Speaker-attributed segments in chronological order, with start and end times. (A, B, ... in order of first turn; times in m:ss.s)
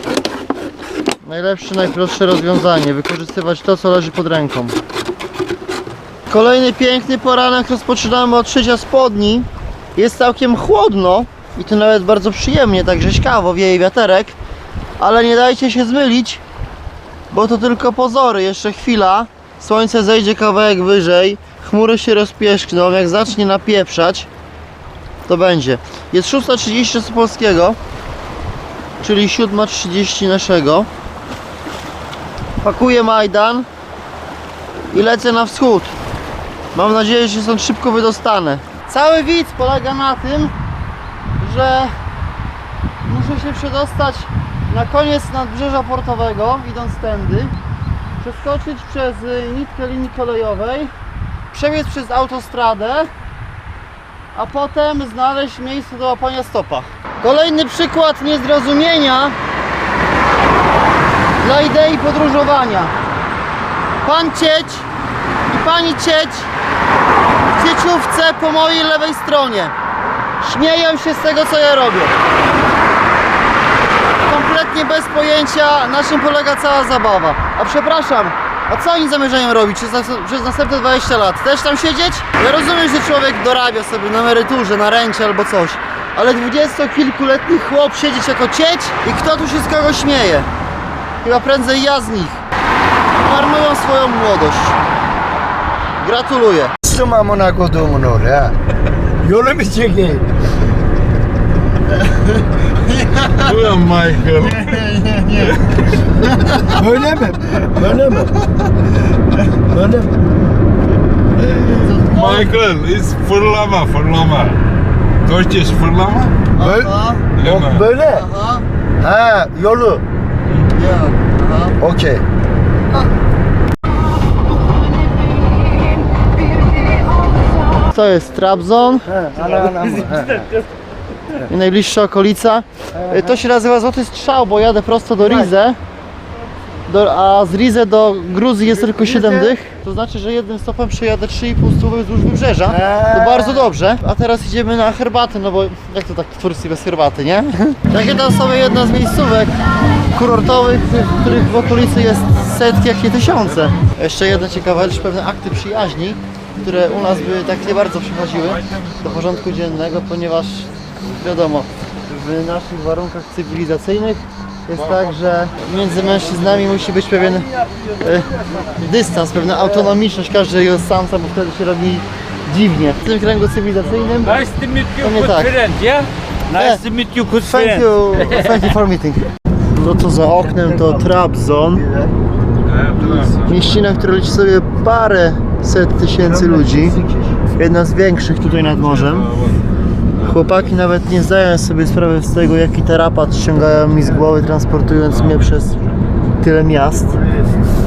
0:01.2-0:04.8 A
0:06.3-0:14.4 A
0:15.0-0:16.4 A
0:17.3-0:24.3 A
0:25.2-0:27.8 A
0:29.0-0:30.9 A
0:32.6-0:33.7 A
0:34.9-0:35.9 A
0:36.7-0:40.5 A
0:41.4-0:41.9 A
0:43.0-0:47.5 A
0:48.2-0:50.9 A
0:51.5-0:53.1 A
0:54.3-0:59.4 A
1:01.4-1:02.9 A
1:04.0-1:04.9 A
1:05.5-1:06.5 A
1:07.5-1:09.7 A
1:10.4-1:12.1 A
1:14.2-1:30.5 A
1:31.2-1:32.4 A
1:33.2-1:34.8 A
1:36.0-1:36.7 A
1:36.8-1:38.6 B
1:39.2-1:40.2 B
1:42.0-1:43.5 A
1:43.3-1:44.8 C
1:44.4-1:45.6 A
1:46.2-1:46.8 A
1:46.6-1:48.4 B
1:49.3-1:50.2 B
1:51.4-1:54.6 C
1:51.5-1:52.5 A
1:55.2-1:56.3 C
1:56.5-1:57.2 A
1:56.6-1:58.2 B
1:57.4-1:57.8 C
1:58.1-1:58.6 A
1:59.0-2:00.0 B
2:00.7-2:01.8 A
2:01.8-2:02.2 B
2:07.8-2:09.1 A
2:09.1-2:10.5 B
2:09.9-2:10.4 D
2:11.5-2:15.8 A
2:12.9-2:13.4 B
2:15.2-2:15.5 B
2:16.9-2:29.6 A
2:18.6-2:19.6 B
2:22.6-2:23.7 B
2:30.1-2:47.5 A
2:48.0-2:54.4 A
2:54.2-2:58.7 D
2:55.0-2:55.5 A
2:56.5-3:01.8 A
3:00.3-3:01.1 B
3:01.7-3:02.1 B
3:02.6-3:03.8 C
3:03.4-3:07.0 A
3:06.2-3:07.4 B
3:07.5-3:09.3 A
3:08.6-3:09.6 C
3:10.2-3:15.7 A
3:15.1-3:15.9 C
3:16.4-3:17.2 A
3:17.1-3:17.6 B